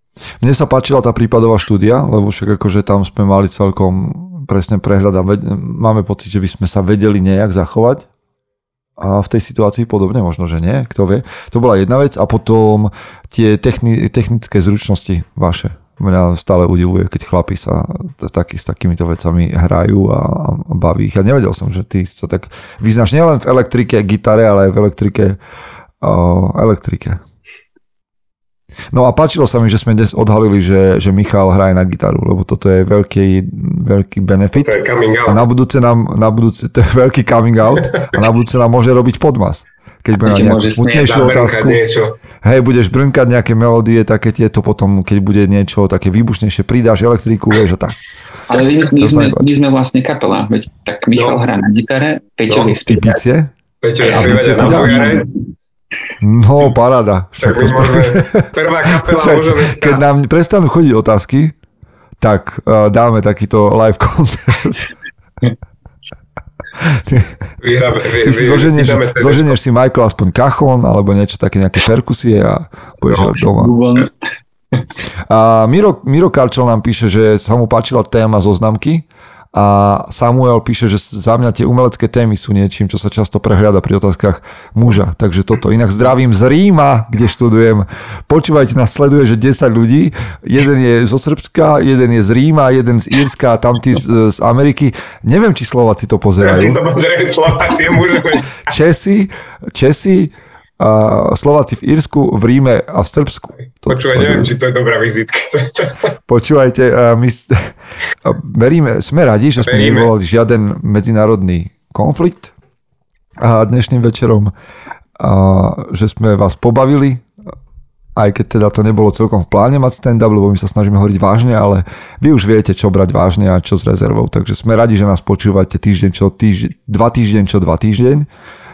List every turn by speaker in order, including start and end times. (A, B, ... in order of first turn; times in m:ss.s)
0:00.4-0:08.1 A
0:09.0-0:25.4 A
0:26.0-0:27.2 A
0:28.9-0:41.8 A
0:34.6-0:35.4 B
0:40.2-0:41.3 C
0:41.0-0:42.2 B
0:42.4-0:48.0 A
0:48.5-0:53.2 C
0:48.8-0:49.5 A
0:51.2-0:51.4 B
0:52.7-0:53.5 A
0:53.8-0:55.3 B
0:54.0-0:55.4 C
0:54.1-0:55.2 A
0:56.2-1:01.5 A
0:57.4-1:00.0 B
1:02.2-1:04.9 A
1:06.8-1:07.3 A
1:07.6-1:09.6 B
1:08.2-1:13.8 A
1:13.4-1:14.1 C
1:15.3-1:36.8 A
1:36.4-1:38.6 B
1:38.6-1:44.5 A
1:43.9-1:46.1 B
1:46.3-1:52.5 A
1:49.6-1:50.1 B
1:53.4-1:54.5 A
1:55.2-1:57.3 A
1:58.2-2:08.3 A